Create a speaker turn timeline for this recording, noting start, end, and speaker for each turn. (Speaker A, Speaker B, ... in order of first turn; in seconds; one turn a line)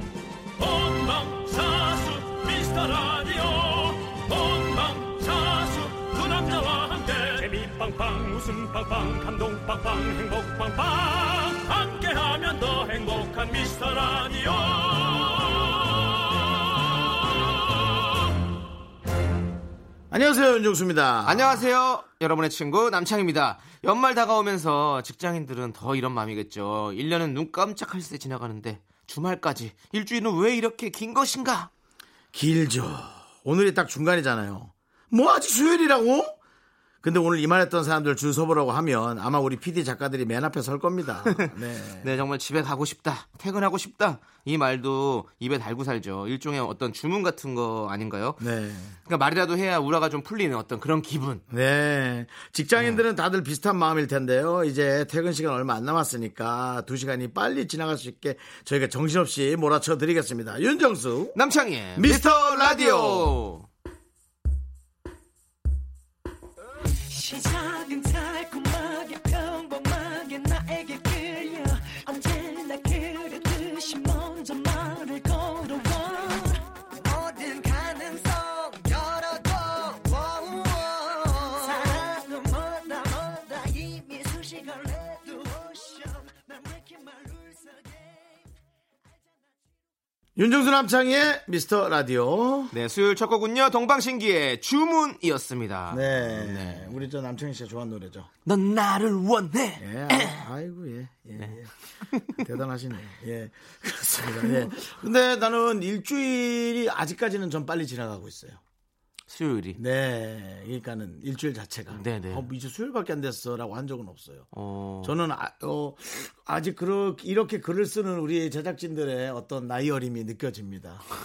Speaker A: 0.6-17.9
Speaker B: 20.1-21.7
Speaker C: 21.2-31.7
Speaker B: 32.3-36.4
Speaker B: 37.0-42.1
Speaker C: 41.3-48.4
Speaker B: 48.4-49.0
Speaker C: 49.0-51.4
Speaker B: 51.5-61.4
Speaker C: 61.3-63.6
Speaker B: 62.0-63.4
Speaker D: 67.1-88.0
Speaker B: 90.3-92.7
Speaker C: 92.7-97.0
Speaker B: 95.9-98.3
Speaker C: 98.5-100.4
Speaker B: 99.8-101.7
Speaker C: 102.1-102.4
Speaker B: 102.3-108.6
Speaker C: 109.3-109.8
Speaker B: 109.8-114.5
Speaker C: 111.9-112.5
Speaker C: 114.5-115.2
Speaker B: 115.0-121.1